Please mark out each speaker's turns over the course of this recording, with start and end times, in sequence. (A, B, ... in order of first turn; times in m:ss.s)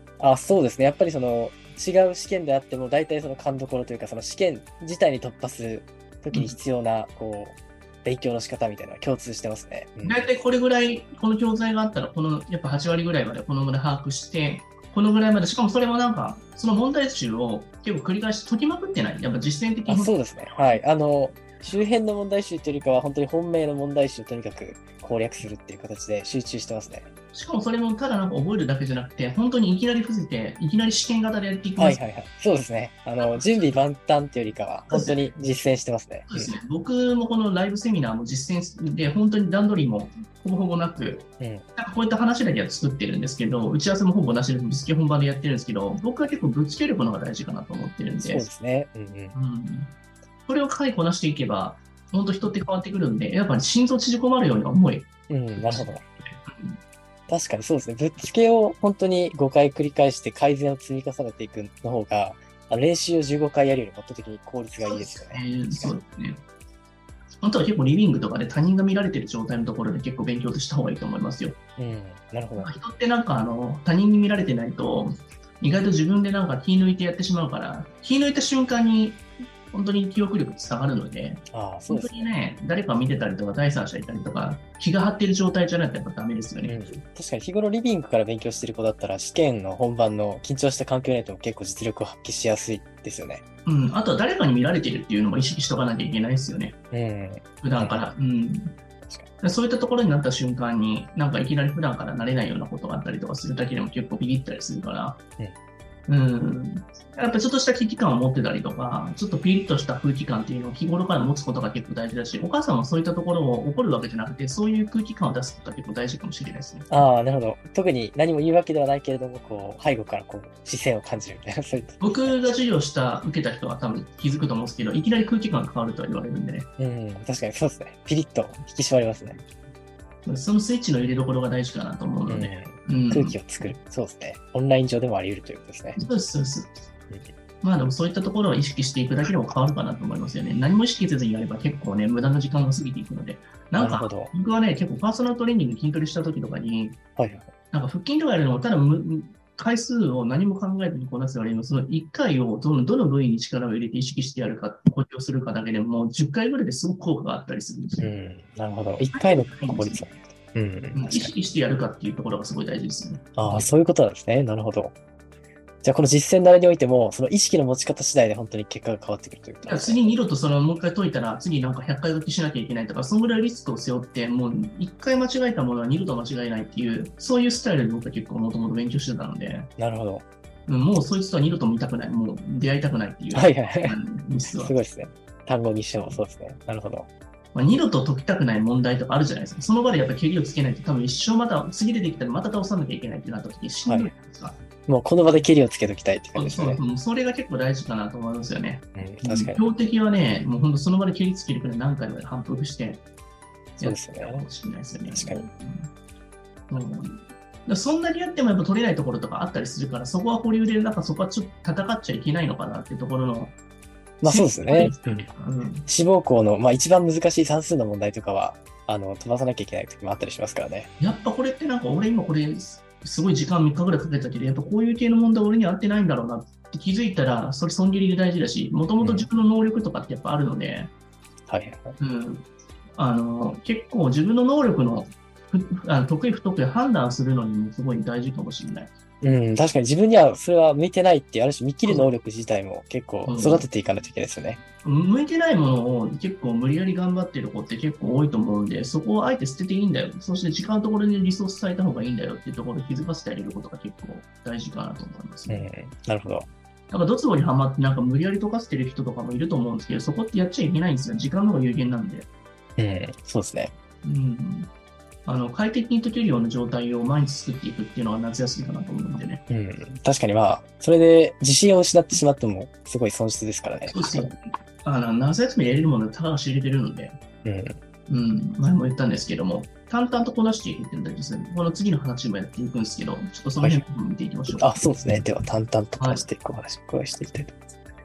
0:00.2-0:10.3 A
0:06.3-0:06.6 B
0:10.0-0:20.1 B
0:19.9-0:27.1 A
0:27.3-0:32.0 B
0:31.8-0:36.5 A
0:33.2-0:33.8 B
0:34.9-0:35.3 B
0:36.3-0:48.5 B
0:41.4-0:41.7 A
0:48.2-0:49.4 A
0:49.3-0:49.9 B
0:50.5-0:55.1 B
0:55.3-0:56.0 A
0:55.6-0:56.8 B
0:57.3-1:05.9 A
1:04.8-1:06.4 B
1:07.4-1:11.6 B
1:11.8-1:12.7 A
1:12.6-1:26.8 B
1:21.5-1:22.3 A
1:26.6-1:33.4 A
1:33.7-1:36.8 B
1:36.9-1:38.1 A
1:37.6-1:38.8 B
1:39.4-1:45.2 B
1:46.1-1:56.9 B
1:56.9-2:02.5 A
2:02.0-2:06.7 B
2:06.8-2:09.4 A
2:10.2-2:13.4 B
2:12.3-2:16.0 A
2:16.0-2:16.7 B
2:17.6-2:27.0 B
2:23.8-2:24.3 A
2:27.2-2:27.5 A
2:27.7-2:38.1 B
2:38.0-2:41.3 A
2:39.1-2:40.1 B
2:40.9-2:43.6 B
2:43.4-2:45.0 A
2:45.8-2:50.0 A
2:49.6-2:59.7 B
2:59.8-3:00.3 A
3:00.7-3:04.8 B
3:03.3-3:04.0 A
3:04.6-3:07.1 A
3:07.5-3:14.6 B
3:13.9-3:14.1 A
3:14.9-3:16.8 A
3:16.3-3:23.0 B
3:19.0-3:19.6 A
3:23.8-3:24.5 A
3:23.8-3:25.9 B
3:25.1-3:25.5 A
3:26.7-3:33.6 B
3:34.2-3:35.3 A
3:34.2-3:35.9 B
3:35.9-3:40.9 A
3:41.0-3:50.9 B
3:49.0-3:49.3 A
3:51.5-3:52.0 A
3:52.0-3:58.9 B
3:59.2-4:04.6 A
4:01.8-4:02.1 B
4:03.3-4:03.7 B
4:04.8-4:15.6 B
4:15.5-4:16.5 A
4:16.9-4:22.3 B
4:22.8-4:23.7 A
4:24.0-4:24.7 B
4:25.2-4:29.4 B
4:29.5-4:34.3 A
4:33.9-4:37.2 B
4:37.4-4:37.8 A
4:38.1-4:44.7 B
4:43.6-4:43.8 A
4:44.6-4:47.6 A
4:46.0-4:46.3 B